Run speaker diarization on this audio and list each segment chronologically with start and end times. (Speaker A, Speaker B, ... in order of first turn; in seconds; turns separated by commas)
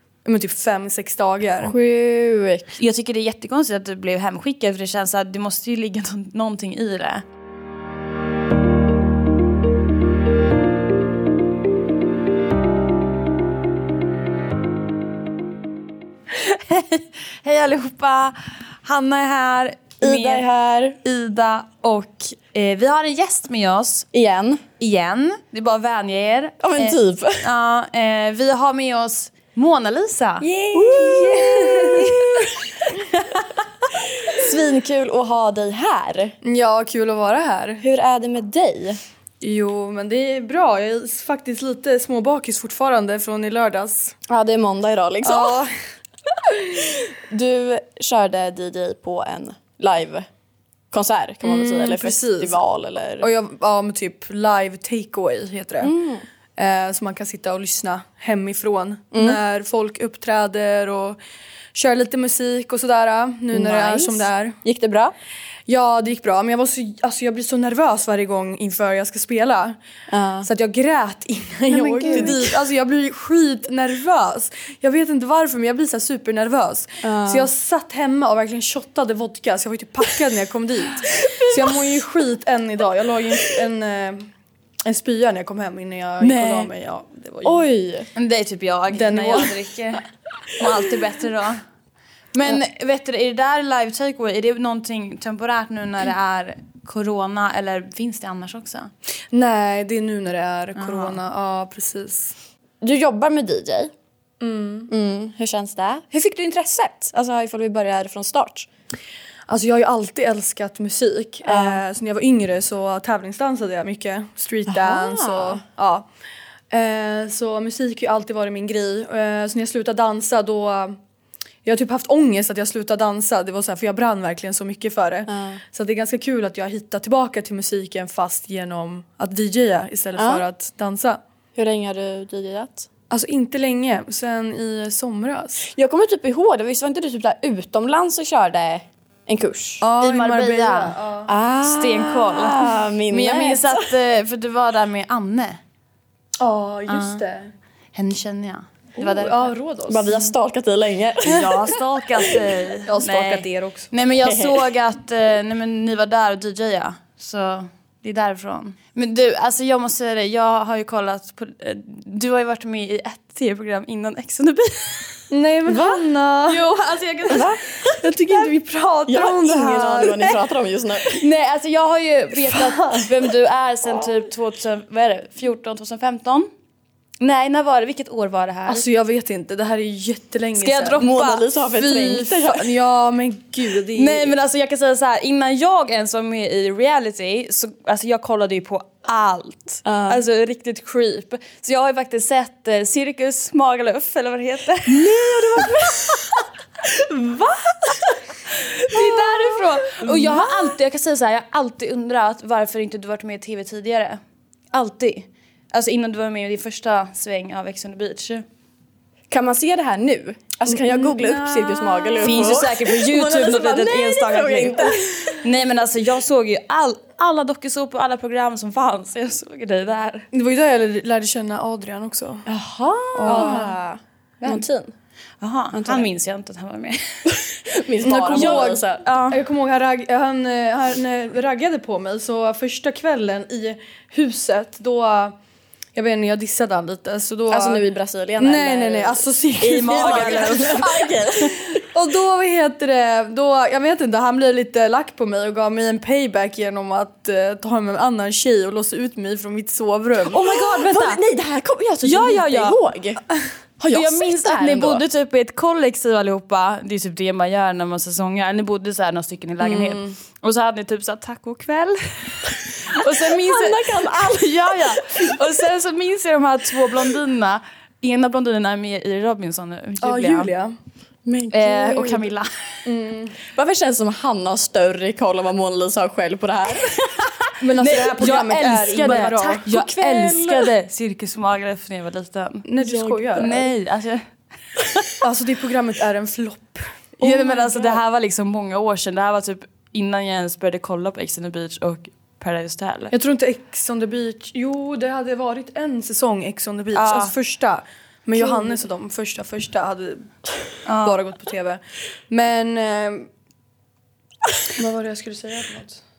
Speaker A: 0.2-1.7, Speaker B: 1.6-2.8, Speaker C: 2.8-7.2, Speaker C: 16.3-20.4, Speaker B: 20.0-21.0, Speaker C: 21.0-24.1, Speaker B: 24.1-24.6, Speaker C: 24.8-32.5, Speaker B: 26.6-27.4, Speaker B: 30.4-32.5, Speaker B: 33.9-36.3, Speaker A: 36.4-37.8, Speaker B: 37.8-39.0, Speaker A: 39.4-44.1, Speaker B: 44.3-45.6, Speaker A: 45.2-45.7, Speaker B: 46.7-50.3, Speaker B: 50.9-53.3, Speaker A: 51.4-52.6, Speaker A: 53.2-55.9, Speaker B: 55.8-56.2, Speaker A: 56.6-61.2, Speaker B: 59.1-59.4, Speaker A: 61.7-64.6, Speaker B: 63.5-65.1, Speaker A: 65.7-69.8, Speaker B: 70.1-70.5, Speaker A: 70.4-84.3, Speaker C: 71.7-72.4, Speaker B: 72.0-72.4, Speaker B: 77.0-77.5, Speaker B: 81.2-82.0, Speaker A: 84.8-87.7, Speaker B: 86.2-86.7, Speaker B: 87.4-88.1, Speaker C: 88.2-90.0, Speaker A: 88.9-89.5, Speaker C: 90.5-91.6, Speaker C: 92.3-98.9, Speaker A: 99.3-102.3, Speaker C: 100.8-101.1, Speaker B: 102.8-103.9, Speaker A: 104.4-104.9, Speaker B: 104.9-108.7, Speaker A: 109.5-116.0, Speaker B: 111.4-111.8, Speaker B: 114.7-115.6, Speaker A: 116.7-121.0, Speaker A: 121.6-131.2, Speaker B: 125.3-125.6, Speaker B: 130.2-130.4, Speaker B: 131.6-132.9, Speaker A: 133.1-135.7, Speaker B: 135.7-139.8, Speaker A: 139.8-141.3, Speaker C: 140.0-141.0, Speaker B: 141.3-143.9, Speaker C: 141.6-145.6, Speaker A: 146.4-147.5, Speaker C: 146.9-147.2, Speaker C: 147.9-149.5, Speaker A: 149.0-150.2, Speaker B: 149.9-152.4, Speaker C: 151.2-165.2, Speaker A: 152.8-153.9, Speaker B: 154.2-154.7, Speaker A: 165.3-166.6, Speaker C: 166.5-168.4, Speaker B: 167.3-167.6, Speaker A: 168.0-170.3, Speaker B: 169.1-171.2, Speaker C: 171.1-176.5, Speaker C: 177.2-178.8, Speaker A: 178.7-181.0, Speaker C: 180.6-181.4, Speaker B: 181.0-182.7, Speaker A: 181.7-184.3, Speaker C: 183.9-196.1, Speaker B: 189.8-190.2, Speaker B: 194.9-196.2, Speaker C: 197.1-197.9, Speaker C: 198.5-204.2, Speaker B: 200.1-200.4, Speaker C: 204.7-208.4, Speaker B: 209.3-215.4, Speaker C: 210.9-220.3, Speaker A: 220.3-222.4, Speaker B: 222.4-224.9, Speaker A: 223.1-223.7, Speaker C: 223.2-223.7, Speaker C: 225.4-227.2, Speaker B: 225.7-226.1, Speaker B: 227.3-229.0, Speaker A: 228.0-235.3, Speaker C: 228.3-229.4, Speaker A: 235.9-237.8, Speaker B: 237.5-241.8, Speaker A: 238.4-240.8, Speaker C: 239.6-241.1, Speaker A: 241.4-250.4, Speaker C: 250.3-251.2, Speaker B: 250.4-253.2, Speaker C: 252.0-252.8, Speaker B: 253.8-255.0, Speaker C: 253.9-270.5, Speaker A: 259.6-260.1, Speaker B: 263.2-265.3, Speaker A: 270.0-270.7, Speaker B: 271.2-272.3, Speaker C: 271.5-272.5, Speaker A: 272.8-273.3, Speaker B: 273.5-277.3, Speaker A: 277.6-279.6, Speaker C: 277.8-282.7, Speaker B: 278.6-280.7, Speaker A: 282.6-283.6, Speaker B: 282.8-283.7, Speaker C: 283.3-284.2, Speaker A: 285.2-288.0, Speaker C: 287.2-293.1, Speaker A: 293.1-300.3, Speaker C: 296.9-297.3, Speaker C: 300.9-301.2, Speaker A: 301.0-303.3, Speaker A: 304.7-306.0